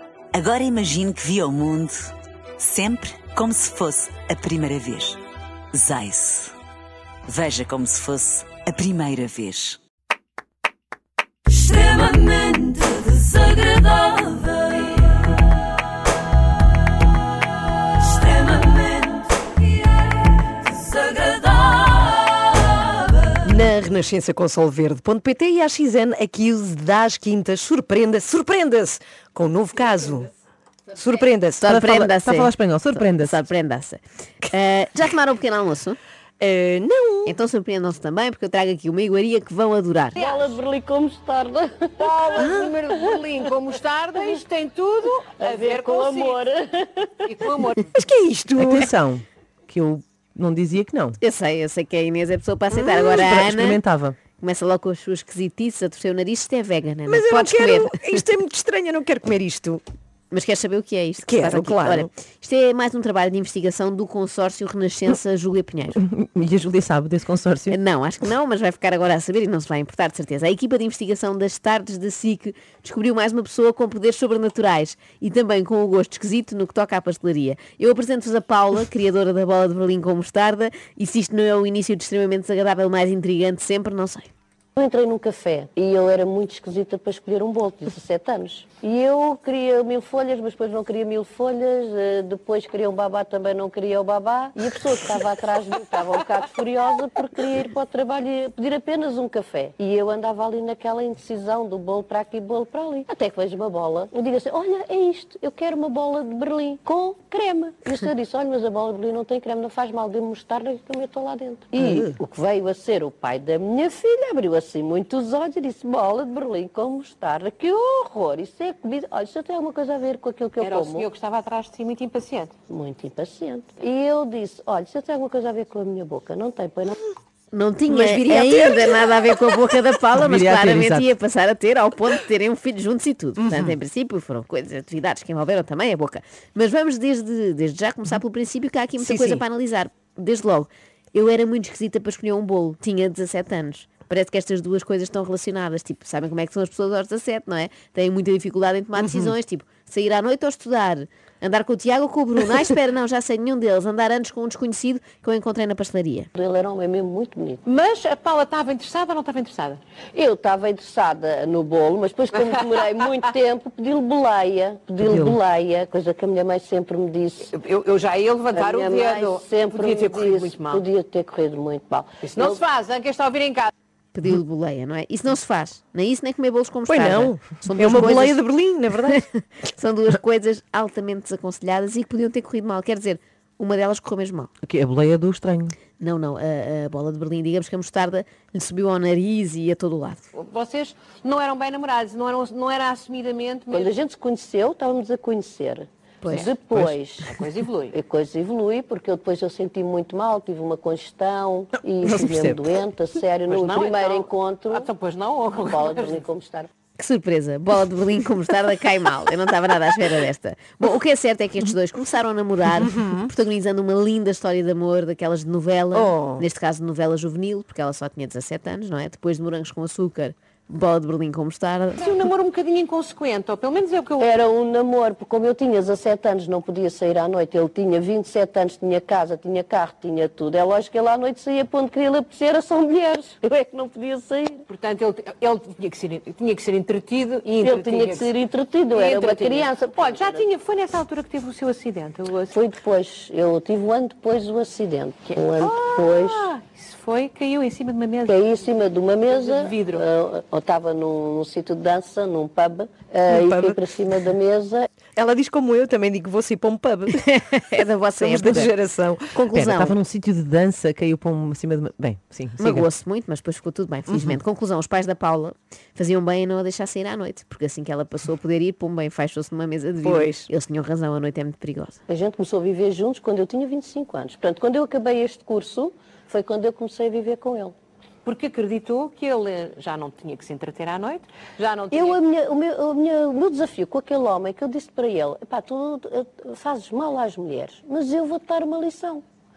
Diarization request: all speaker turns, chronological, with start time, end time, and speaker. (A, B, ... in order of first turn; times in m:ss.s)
0:00.3-0:05.2 A
0:05.7-0:06.6 A
0:07.3-0:09.8 A
0:14.0-0:14.6 B
0:18.6-0:19.0 B
0:20.8-0:21.8 B
0:23.3-0:30.3 B
0:30.9-0:31.7 B
0:31.6-0:36.0 C
0:31.6-0:33.4 D
0:36.4-0:37.4 B
0:37.3-0:40.2 C
0:40.2-0:44.4 E
0:42.4-0:42.8 B
0:42.8-0:46.4 F
0:45.4-0:47.7 E
0:47.3-0:47.8 F
0:47.9-0:48.9 B
0:48.6-0:51.2 D
0:51.2-0:53.8 C
0:52.7-0:53.2 B
0:53.1-0:54.2 D
0:54.4-0:58.0 C
0:57.1-0:59.8 B
1:00.3-1:06.0 C
1:01.2-1:02.1 B
1:06.0-1:07.8 D
1:07.7-1:24.3 C
1:24.8-2:01.1 E
2:00.6-2:02.5 F
2:02.7-2:07.0 E
2:07.5-2:36.3 C
2:07.9-2:09.1 B
2:10.2-2:11.1 D
2:13.4-2:13.8 B
2:19.0-2:19.4 B
2:29.0-2:29.4 B
2:36.4-2:37.6 E
2:37.7-2:39.8 F
2:40.1-2:47.5 E
2:45.0-2:45.4 D
2:47.6-2:50.8 F
2:48.5-2:52.6 E
2:52.3-2:53.7 F
2:54.1-2:58.4 C
2:56.9-2:59.2 B
2:59.1-3:04.5 C
3:04.6-3:05.8 D
3:06.0-3:10.2 C
3:10.3-3:13.9 F
3:13.7-3:24.9 E
3:16.2-3:16.5 C
3:16.7-3:17.0 D
3:17.4-3:18.0 F
3:22.0-3:22.6 D
3:23.5-3:26.2 F
3:25.5-3:26.7 E
3:27.0-3:42.2 C
3:32.8-3:33.3 B
3:35.9-3:36.4 B
3:42.0-3:44.3 F
3:44.2-3:54.7 E
3:54.7-3:58.3 F
3:57.6-4:00.5 E
3:58.9-4:02.6 F
4:02.5-4:06.5 E
4:05.6-4:08.3 F
4:08.2-4:14.9 E
4:09.3-4:10.0 F
4:13.3-4:13.8 B
4:15.2-4:17.2 B
4:17.2-4:18.7 C
4:18.2-4:19.4 B
4:19.4-4:20.0 C
4:19.5-4:22.9 D
4:22.6-4:32.0 C
4:24.1-4:24.4 B
4:30.0-4:30.5 B
4:32.1-4:37.8 E
4:38.2-4:42.2 F
4:41.9-4:49.2 E